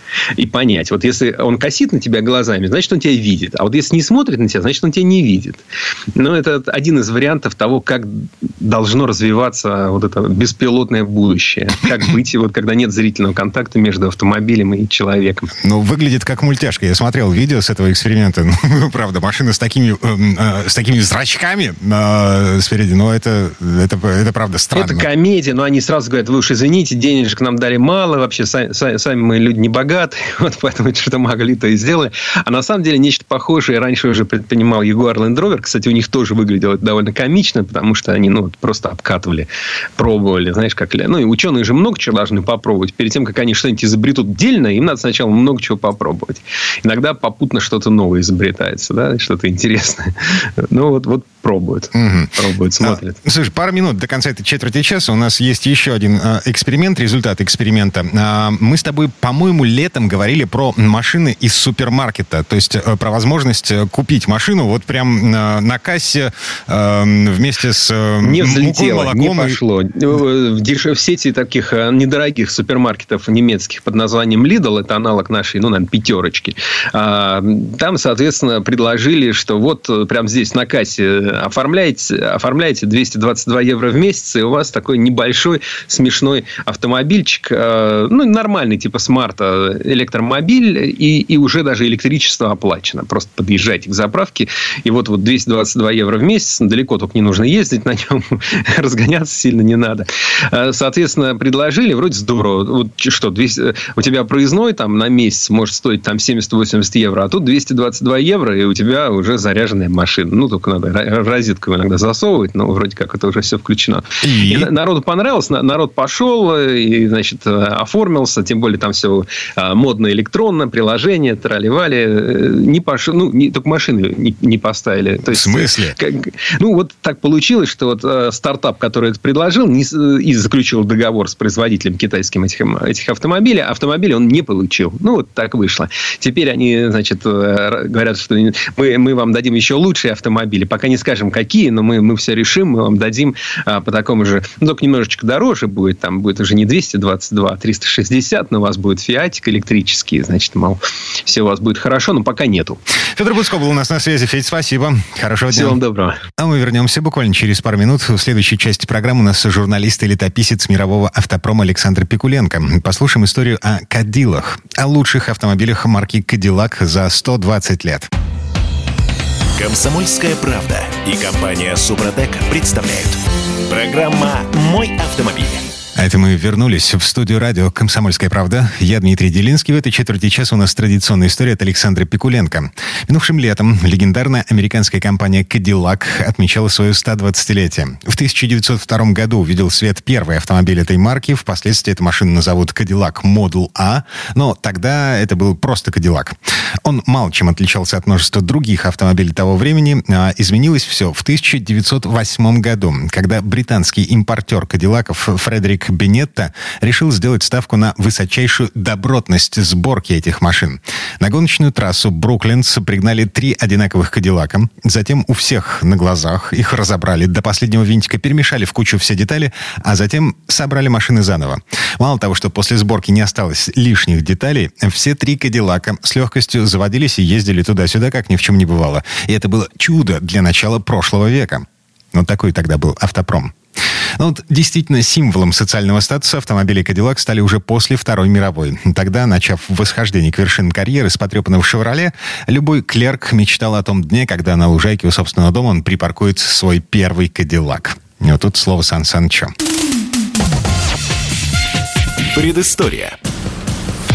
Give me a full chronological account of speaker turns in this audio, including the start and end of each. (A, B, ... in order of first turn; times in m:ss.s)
0:00.4-0:05.6 A
0:06.2-0:15.5 A
0:15.6-0:25.0 B
0:24.7-0:53.2 A
0:51.9-1:09.6 B
1:08.2-2:32.8 A
1:54.2-1:54.7 B
2:05.3-2:06.0 B
2:33.2-2:35.8 B
2:35.5-2:36.2 A
2:36.4-2:48.1 B
2:49.6-2:55.7 C
2:56.0-3:53.5 B
3:54.2-4:09.5 B
4:12.3-4:13.2 C